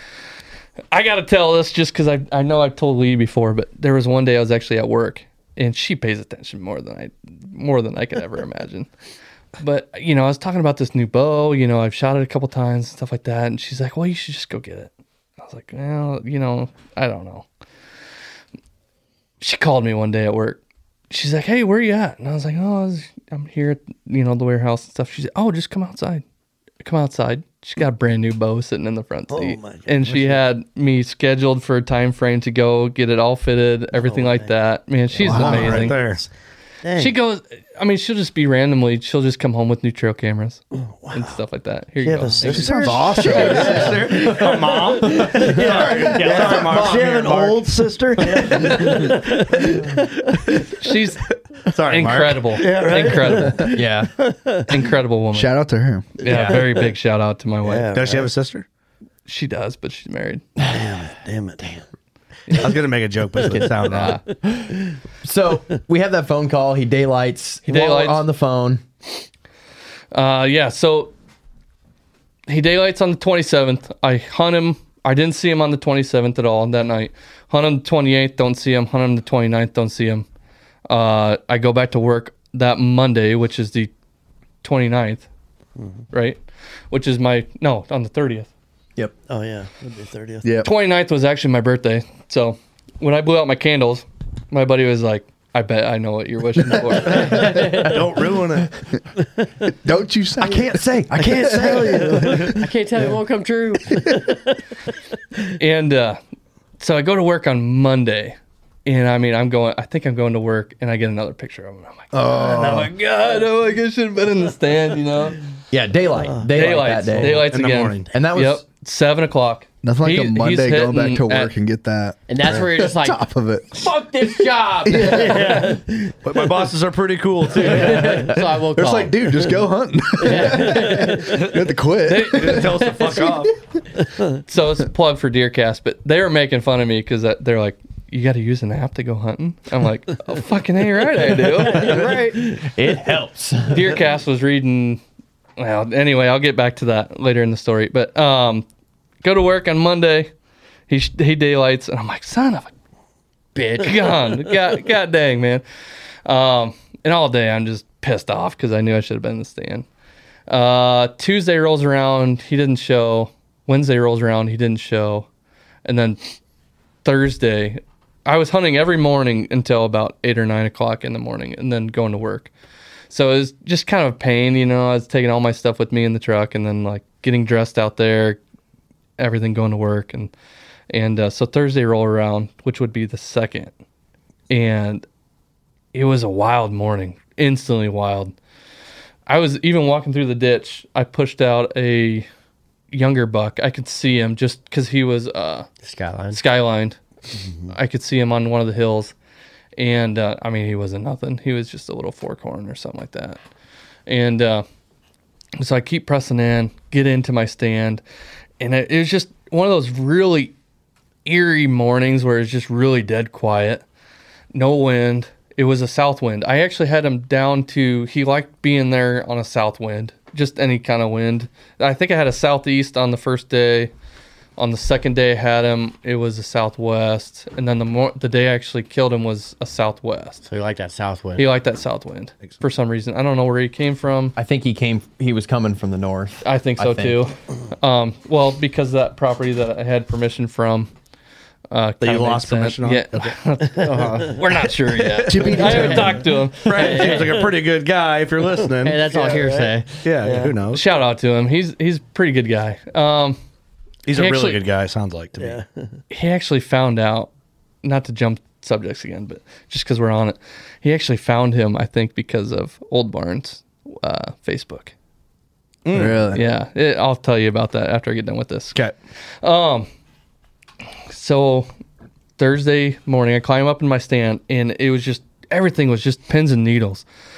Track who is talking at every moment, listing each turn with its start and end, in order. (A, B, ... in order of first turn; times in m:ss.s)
0:00.9-0:08.9 A
0:09.6-0:17.4 A
0:19.4-0:26.2 A
0:26.8-0:36.0 A
0:29.3-0:30.4 B
0:33.9-0:34.5 B
0:35.2-0:35.9 C
0:35.2-0:36.3 B
0:35.3-0:36.2 D
0:36.8-0:37.1 B
0:36.9-0:42.7 A
0:40.7-0:41.4 B
0:42.0-0:43.9 B
0:42.4-0:44.5 C
0:42.8-0:47.6 D
0:43.3-0:43.9 E
0:45.0-0:50.2 B
0:45.0-0:46.6 C
0:46.3-0:47.2 E
0:48.3-0:49.2 D
0:50.8-0:51.2 A
0:51.7-0:52.6 D
0:51.9-0:53.7 A
0:52.5-0:54.8 B
0:53.7-0:54.1 E
0:54.7-0:55.5 A
0:55.3-0:56.2 C
0:56.2-0:56.9 B
0:56.2-0:57.9 A
0:56.3-0:56.6 D
0:57.6-0:58.3 B
0:57.9-0:58.6 D
0:59.2-1:00.4 A
1:00.6-1:01.8 B
1:02.5-1:04.2 D
1:03.4-1:04.4 B
1:03.5-1:08.8 E
1:03.9-1:04.2 A
1:07.6-1:08.2 A
1:10.1-1:11.1 A
1:12.5-1:20.2 A
1:20.9-1:23.9 A
1:24.6-1:25.2 A
1:25.8-1:26.0 B
1:26.1-1:28.5 A
1:29.3-1:30.6 B
1:30.4-1:30.7 C
1:30.6-1:37.6 A
1:37.1-1:37.6 C
1:37.1-1:37.9 F
1:37.9-1:38.7 D
1:39.7-1:42.5 C
1:40.4-1:42.4 E
1:41.1-1:42.6 B
1:42.6-1:44.0 F
1:44.1-1:44.4 B
1:45.6-1:46.2 A
1:46.8-1:55.4 A
1:52.1-1:52.9 C
1:55.7-1:57.5 E
1:56.1-1:57.2 B
1:56.5-2:01.5 A
1:56.6-1:58.1 D
1:58.1-1:58.6 E
1:59.8-2:03.9 C
2:02.3-2:03.2 F
2:03.7-2:05.5 F
2:04.8-2:05.7 C
2:05.1-2:08.3 D
2:05.4-2:06.1 B
2:07.6-2:09.4 F
2:07.6-2:13.3 C
2:10.2-2:11.3 F
2:12.0-2:12.7 A
2:12.1-2:13.5 D
2:14.5-2:22.0 A
2:21.6-2:22.4 F
2:22.6-2:24.0 E
2:23.7-2:25.0 A
2:25.6-2:28.6 A
2:29.2-2:30.3 A
2:30.9-2:32.7 A
2:33.5-2:33.9 F
2:33.8-2:35.6 A
2:36.2-2:39.8 A
2:40.5-2:45.3 A
2:45.8-2:46.2 A
2:47.0-2:52.5 A
2:53.1-2:58.4 A
2:59.2-3:00.3 A
3:00.9-3:03.7 A
3:04.5-3:05.0 A
3:05.9-3:08.3 A
3:09.2-3:12.3 A
3:12.9-3:15.7 A
3:15.8-3:16.4 F
3:16.3-3:17.0 A
3:17.3-3:17.7 B
3:17.7-3:19.1 A
3:19.8-3:23.4 A
3:24.1-3:24.6 A
3:25.6-3:28.0 A
3:28.6-3:30.5 A
3:31.2-3:33.8 A
3:34.5-3:43.9 A
3:44.6-3:50.4 A
3:50.4-3:51.5 F
3:51.4-3:54.3 A
3:54.4-3:57.2 E
3:56.4-4:00.9 A
4:01.7-4:07.1 A
4:02.0-4:03.3 D
4:03.8-4:04.3 F
4:05.2-4:05.9 D
4:05.2-4:06.3 C
4:05.6-4:06.0 F
4:06.6-4:09.0 D
4:06.7-4:07.3 F
4:08.8-4:09.9 F
4:09.1-4:10.6 B
4:09.1-4:09.4 C
4:10.0-4:10.8 D
4:10.7-4:13.4 A
4:14.0-4:15.6 D
4:14.1-4:14.6 A
4:15.4-4:16.0 B
4:16.1-4:17.3 A
4:17.8-4:24.9 A
4:25.8-4:26.3 D
4:25.9-4:26.4 C
4:26.3-4:28.8 A
4:29.4-4:29.9 A
4:31.1-4:31.7 A
4:32.4-4:37.0 A